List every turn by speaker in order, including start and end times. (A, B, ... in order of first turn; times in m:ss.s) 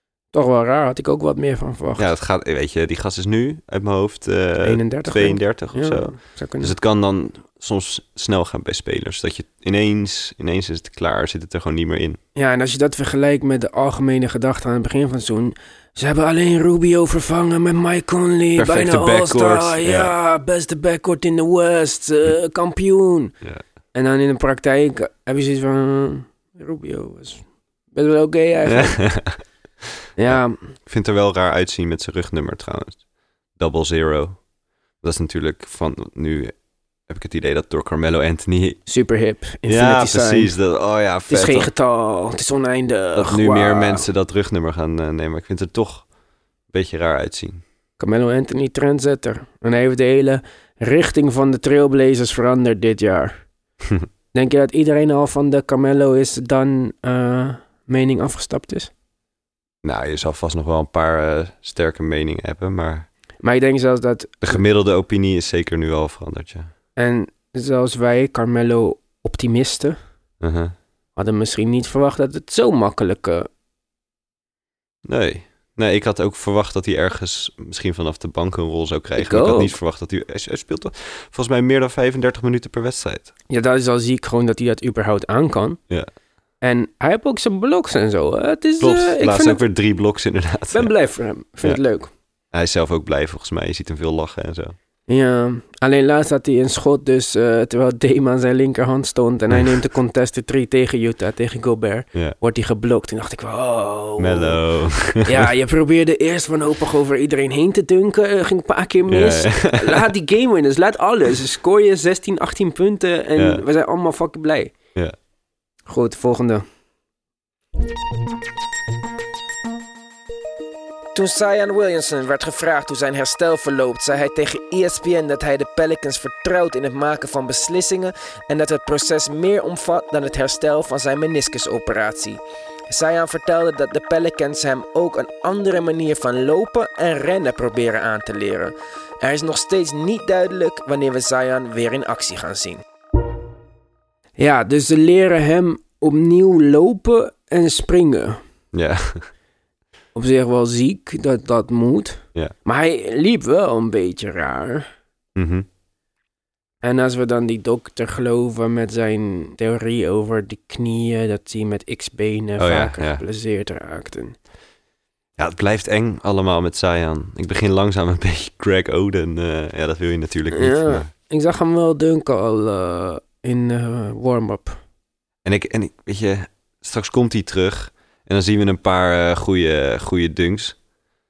0:00.3-0:02.1 A
0:02.0-0:12.2 B
0:04.6-0:06.7 A
0:12.4-0:23.3 A
0:18.6-0:20.1 B
0:23.9-0:29.0 A
0:28.7-0:29.5 B
0:30.2-0:30.7 A
0:30.3-0:33.0 B
0:33.6-0:34.4 B
0:35.0-0:36.6 B
0:37.1-0:38.8 B
0:38.9-0:40.5 A
0:39.7-0:41.7 B
0:41.3-0:44.1 A
0:43.1-0:46.1 B
0:46.7-0:47.6 B
0:48.0-0:53.4 A
0:54.3-0:58.9 A
0:59.8-1:03.1 B
1:03.4-1:04.6 A
1:04.4-1:06.7 B
1:07.0-1:10.0 A
1:10.4-1:10.8 B
1:11.2-1:13.5 A
1:15.0-1:23.3 B
1:19.2-1:19.8 A
1:23.5-1:25.8 A
1:26.6-1:29.6 A
1:28.8-1:30.9 B
1:30.7-1:32.1 A
1:32.5-1:34.8 B
1:35.1-1:44.6 A
1:44.2-1:45.5 B
1:45.2-1:54.7 A
1:49.1-1:50.1 B
1:53.4-1:53.6 B
1:55.9-1:56.6 A
2:01.2-2:22.8 A
2:24.4-2:28.4 A
2:28.7-2:29.3 B
2:30.2-2:34.9 A
2:35.4-2:35.7 B
2:36.8-2:44.4 A
2:42.6-2:43.2 B
2:45.4-2:51.1 B
2:50.5-2:54.8 A
2:55.4-3:00.8 B